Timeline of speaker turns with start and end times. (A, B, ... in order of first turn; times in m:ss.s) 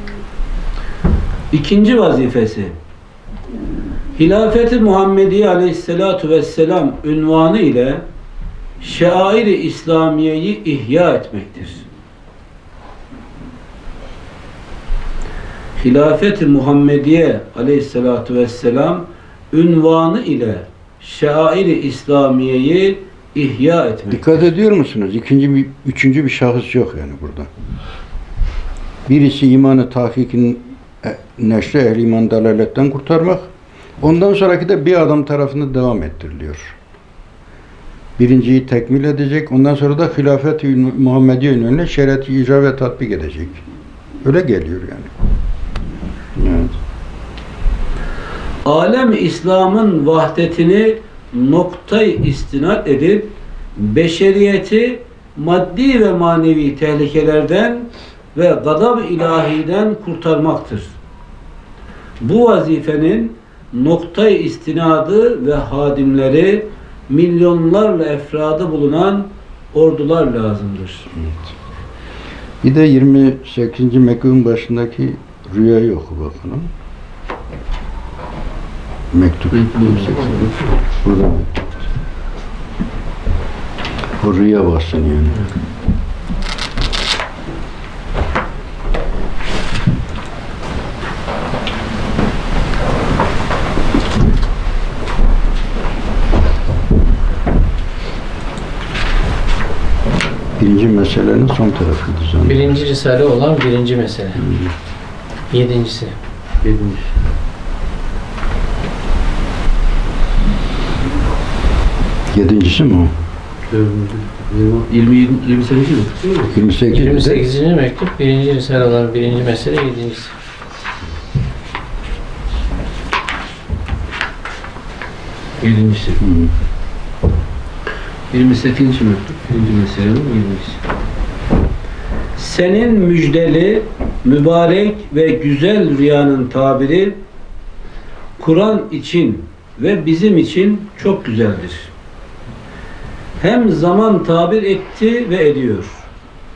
0:01.5-0:02.8 A
0:04.2-0:08.0 A
0:08.8-0:11.9 A
0:15.8-0:24.5 A
0:24.1-0:27.5 B
0:29.1-0:33.5 B
0:34.0-0:36.8 B
0:38.2-0:43.6 B
0:44.2-0:45.1 B
0:46.4-0:46.7 B
0:48.6-1:00.9 A
1:02.2-1:11.1 A
1:11.1-1:11.5 B
1:12.6-1:16.7 B
1:19.1-1:21.8 B
1:19.5-1:20.7 A
1:24.2-1:25.4 B
1:40.6-1:42.8 B
1:42.5-1:44.4 C
1:44.4-1:44.7 B
1:45.5-1:46.2 C
1:46.6-1:47.2 A
1:52.3-1:53.1 B
1:53.7-1:56.5 A
1:56.5-1:57.4 B
1:56.9-2:00.3 C
2:05.6-2:06.2 A
2:06.2-2:06.5 B
2:08.3-2:10.8 A
2:12.4-2:17.2 A
2:18.4-2:21.9 A
2:23.4-2:26.0 A